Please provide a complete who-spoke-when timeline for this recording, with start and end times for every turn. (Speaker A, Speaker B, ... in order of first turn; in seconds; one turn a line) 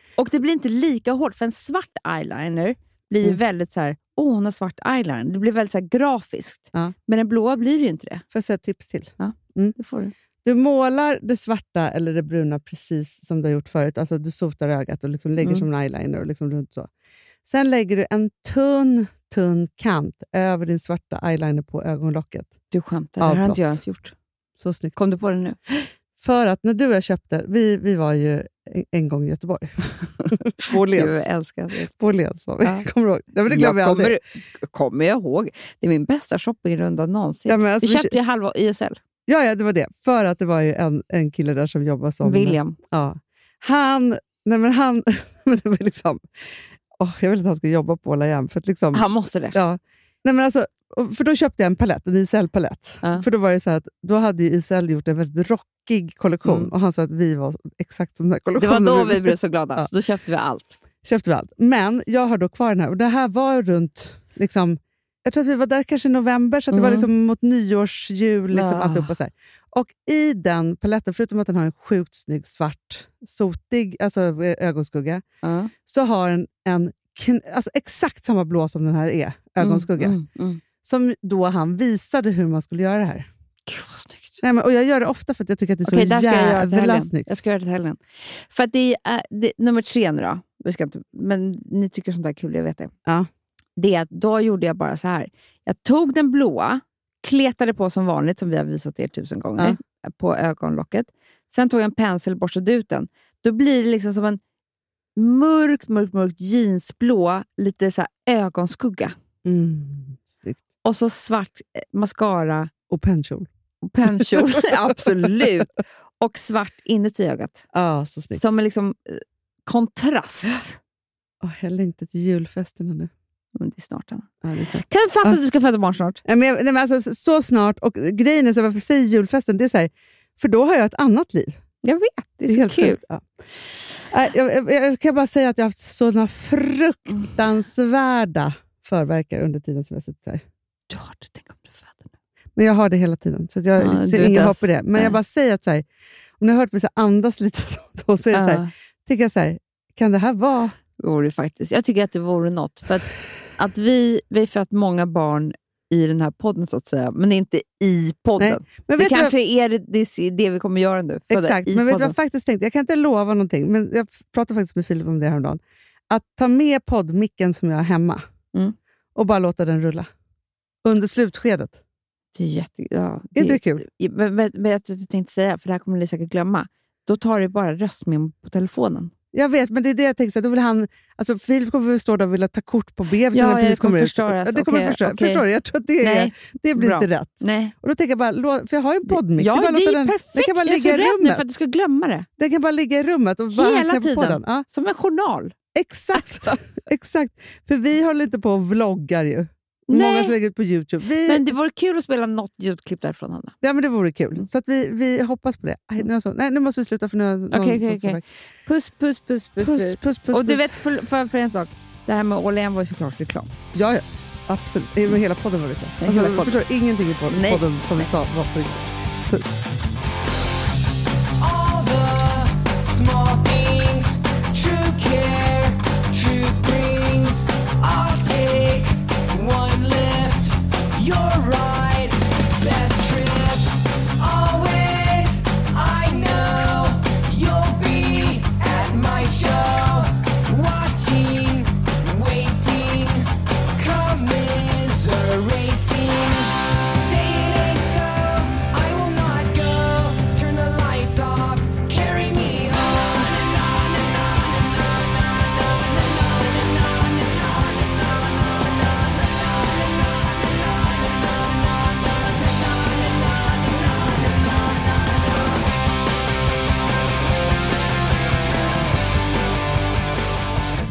Speaker A: 0.2-8.2
Speaker B: 8.3-9.8
Speaker A: 9.2-10.1
Speaker B: 10.4-16.9
Speaker A: 15.4-15.7
Speaker B: 17.4-22.5
Speaker A: 22.7-24.1
Speaker B: 23.2-23.8
Speaker B: 24.6-24.9
Speaker A: 24.9-25.6
Speaker B: 25.7-31.2
Speaker A: 30.6-31.9
Speaker B: 31.9-34.2
Speaker A: 33.5-39.0
Speaker B: 37.5-38.1
Speaker B: 39.3-46.2
Speaker A: 42.2-42.8
Speaker B: 47.0-59.9
Speaker A: 48.9-49.6
Speaker A: 56.4-56.7
Speaker A: 58.6-60.8
Speaker B: 61.0-75.2
Speaker A: 66.7-67.1
Speaker A: 68.5-69.1
Speaker A: 75.4-75.7
Speaker B: 75.8-80.2
Speaker A: 79.6-80.6
Speaker B: 80.8-83.3
Speaker A: 83.7-84.4
Speaker B: 84.4-87.3
Speaker A: 85.8-92.9
Speaker A: 93.8-104.4
Speaker A: 105.2-109.1
Speaker B: 109.4-110.6
Speaker A: 110.8-112.7
Speaker B: 112.9-113.5
Speaker A: 113.8-117.6
Speaker B: 114.0-114.7
Speaker B: 117.7-118.4
Speaker A: 118.3-120.8
Speaker B: 121.4-123.1
Speaker A: 123.5-124.3
Speaker B: 124.4-125.4
Speaker A: 124.8-126.2
Speaker B: 126.2-131.6
Speaker A: 131.8-133.0
Speaker B: 132.5-133.2
Speaker B: 134.1-140.4
Speaker A: 140.9-142.1
Speaker B: 142.6-145.8
Speaker A: 143.8-145.2
Speaker B: 146.4-150.7
Speaker A: 148.3-148.7
Speaker A: 151.0-162.1
Speaker B: 158.4-159.3
Speaker B: 161.3-168.2
Speaker B: 169.1-170.1
Speaker B: 170.8-171.8
Speaker A: 172.3-179.1
Speaker B: 173.3-173.8
Speaker B: 179.3-191.4
Speaker A: 183.3-185.4
Speaker A: 186.0-187.7
Speaker A: 189.1-192.2
Speaker B: 192.4-194.7
Speaker A: 193.5-195.5
Speaker B: 195.7-201.4
Speaker A: 196.1-196.5
Speaker A: 199.9-200.3
Speaker A: 201.2-203.5
Speaker B: 203.6-208.2
Speaker A: 207.5-213.5
Speaker B: 209.6-210.8
Speaker B: 213.7-219.6
Speaker A: 216.0-216.6
Speaker A: 217.3-218.1
Speaker C: 221.4-265.6